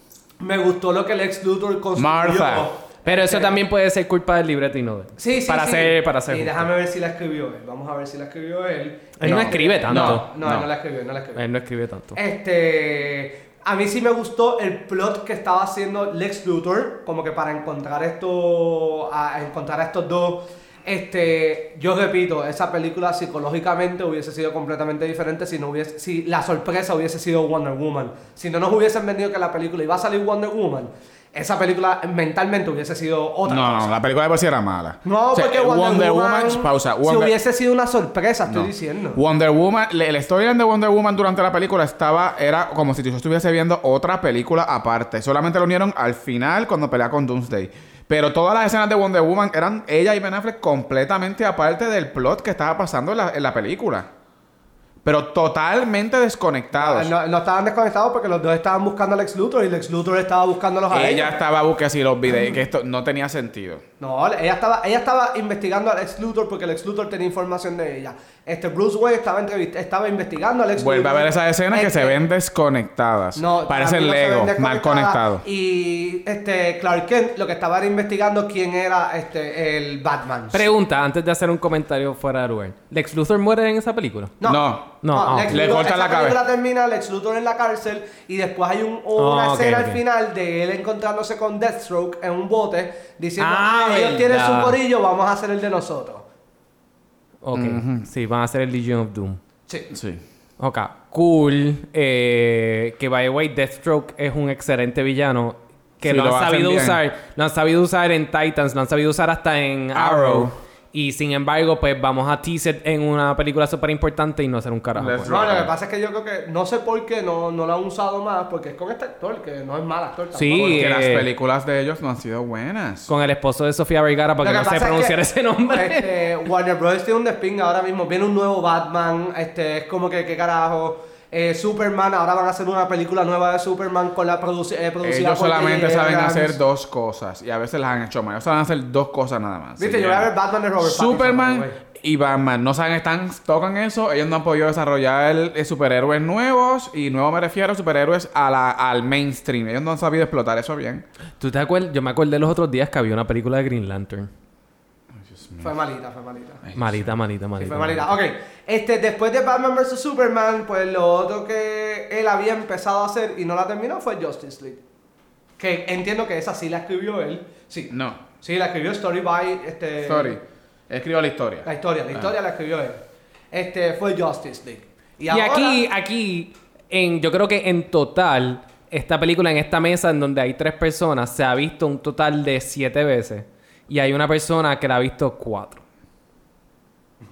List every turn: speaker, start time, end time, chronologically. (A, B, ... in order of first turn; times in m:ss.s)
0:00.4-0:03.6 A
0:02.0-0:02.7 B
0:03.0-0:06.7 C
0:05.2-0:11.4 A
0:09.2-0:10.3 C
0:09.2-0:10.7 B
0:11.3-0:12.2 C
0:12.1-0:33.9 A
0:33.5-0:37.3 B
0:35.0-0:39.2 A
0:38.5-0:54.1 B
0:55.0-0:57.1 B
0:56.8-1:01.4 A
1:00.9-1:03.8 B
1:02.3-1:02.6 A
1:04.0-1:12.2 A
1:10.8-1:15.4 B
1:13.4-1:20.7 A
1:20.5-1:24.4 C
1:24.4-1:36.2 A
1:24.4-1:26.4 B
1:25.0-1:25.8 C
1:29.2-1:30.0 C
1:33.4-1:34.8 C
1:37.4-1:39.4 C
1:37.5-1:38.1 B
1:39.7-1:39.9 A
1:39.9-1:40.2 B
1:40.6-1:55.3 C
1:46.0-1:47.0 B
1:49.9-1:50.5 B
1:55.0-1:55.7 B
1:55.3-2:00.9 A
2:00.3-2:01.3 C
2:00.6-2:03.1 B
2:03.1-2:06.1 C
2:04.4-2:16.6 A
2:15.0-2:31.0 B
2:19.8-2:21.8 A
2:31.4-2:34.3 C
2:35.2-2:35.7 B
2:35.6-2:36.7 A
2:36.6-2:37.1 B
2:36.8-2:38.2 C
2:37.6-2:44.8 A
2:45.6-2:50.4 A
2:47.9-2:48.2 B
2:50.0-2:52.3 B
2:51.6-2:53.0 A
2:53.5-2:55.8 A
2:55.3-3:05.8 C